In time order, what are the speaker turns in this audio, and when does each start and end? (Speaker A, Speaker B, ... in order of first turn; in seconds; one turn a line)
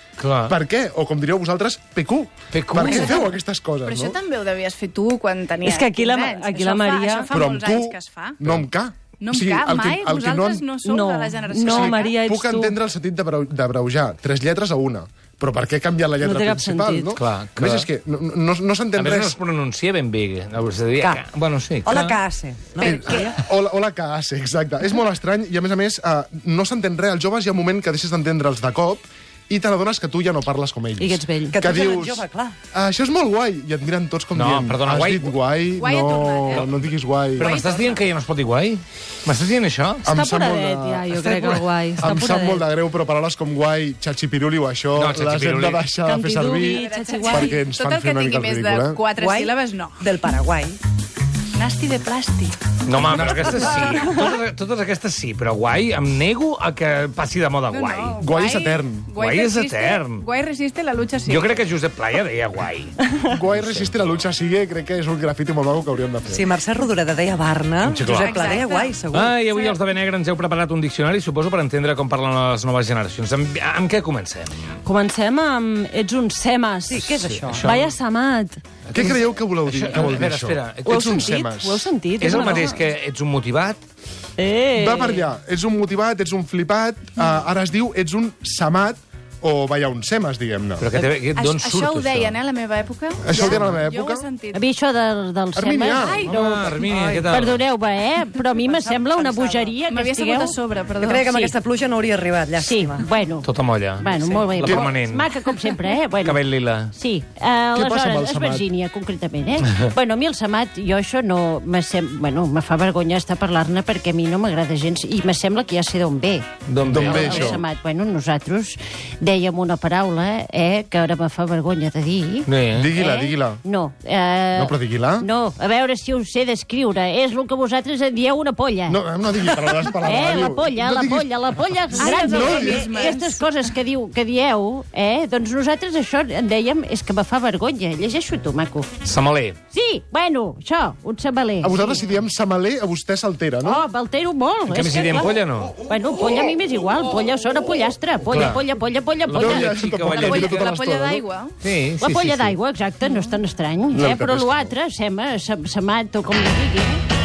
Speaker A: 0.2-0.6
Speaker B: 0.5-4.2
Speaker A: 2.5-3.3
Speaker C: 3.8-8.4
Speaker D: 5.6-7.3
Speaker B: 7.3-10.6
Speaker C: 9.2-12.2
Speaker D: 10.8-12.8
Speaker B: 11.7-19.4
Speaker D: 16.2-17.2
Speaker A: 17.1-17.9
Speaker A: 19.0-22.2
Speaker E: 21.9-23.4
Speaker C: 22.8-23.3
Speaker B: 22.8-37.5
Speaker D: 31.0-31.6
Speaker E: 31.5-32.6
Speaker A: 34.3-35.3
Speaker C: 35.8-36.6
Speaker A: 37.4-40.0
Speaker C: 37.4-38.1
Speaker B: 40.0-49.0
Speaker D: 40.1-42.7
Speaker A: 45.0-45.9
Speaker D: 46.0-47.5
Speaker C: 46.6-50.1
Speaker E: 49.1-50.8
Speaker C: 51.6-54.1
Speaker A: 52.9-58.2
Speaker C: 57.7-61.6
Speaker B: 58.2-59.1
Speaker A: 59.2-60.2
Speaker A: 61.3-64.2
Speaker B: 63.3-66.5
Speaker E: 66.3-69.4
Speaker A: 67.8-68.5
Speaker C: 68.2-69.8
Speaker A: 69.1-74.8
Speaker D: 74.8-78.6
Speaker E: 76.9-77.7
Speaker A: 76.9-77.9
Speaker A: 78.9-81.3
Speaker B: 78.9-81.9
Speaker D: 80.9-82.8
Speaker A: 82.2-83.8
Speaker D: 84.4-85.3
Speaker B: 84.7-90.9
Speaker A: 90.8-92.4
Speaker C: 91.3-94.7
Speaker B: 93.2-94.3
Speaker A: 93.4-93.8
Speaker F: 94.5-96.1
Speaker B: 95.5-96.7
Speaker C: 96.1-96.5
Speaker A: 96.2-97.6
Speaker E: 96.9-97.2
Speaker F: 97.3-100.6
Speaker C: 98.9-101.3
Speaker E: 101.0-103.1
Speaker F: 101.2-101.6
Speaker F: 102.5-129.0
Speaker A: 103.4-106.9
Speaker B: 104.6-105.0
Speaker B: 107.7-108.7
Speaker A: 116.7-117.6
Speaker B: 116.8-117.6
Speaker A: 122.5-123.0
Speaker B: 122.7-123.6
Speaker B: 124.5-125.3
Speaker B: 128.9-131.3
Speaker F: 129.9-138.9
Speaker C: 132.0-133.5
Speaker B: 132.0-132.9
Speaker A: 139.0-139.6
Speaker F: 139.7-142.0
Speaker B: 141.6-143.8
Speaker F: 143.6-150.4
Speaker A: 144.7-145.8
Speaker A: 148.3-148.6
Speaker A: 149.3-150.8
Speaker B: 149.3-151.2
Speaker C: 150.2-151.5
Speaker A: 151.6-152.6
Speaker F: 152.0-157.0
Speaker B: 153.9-154.7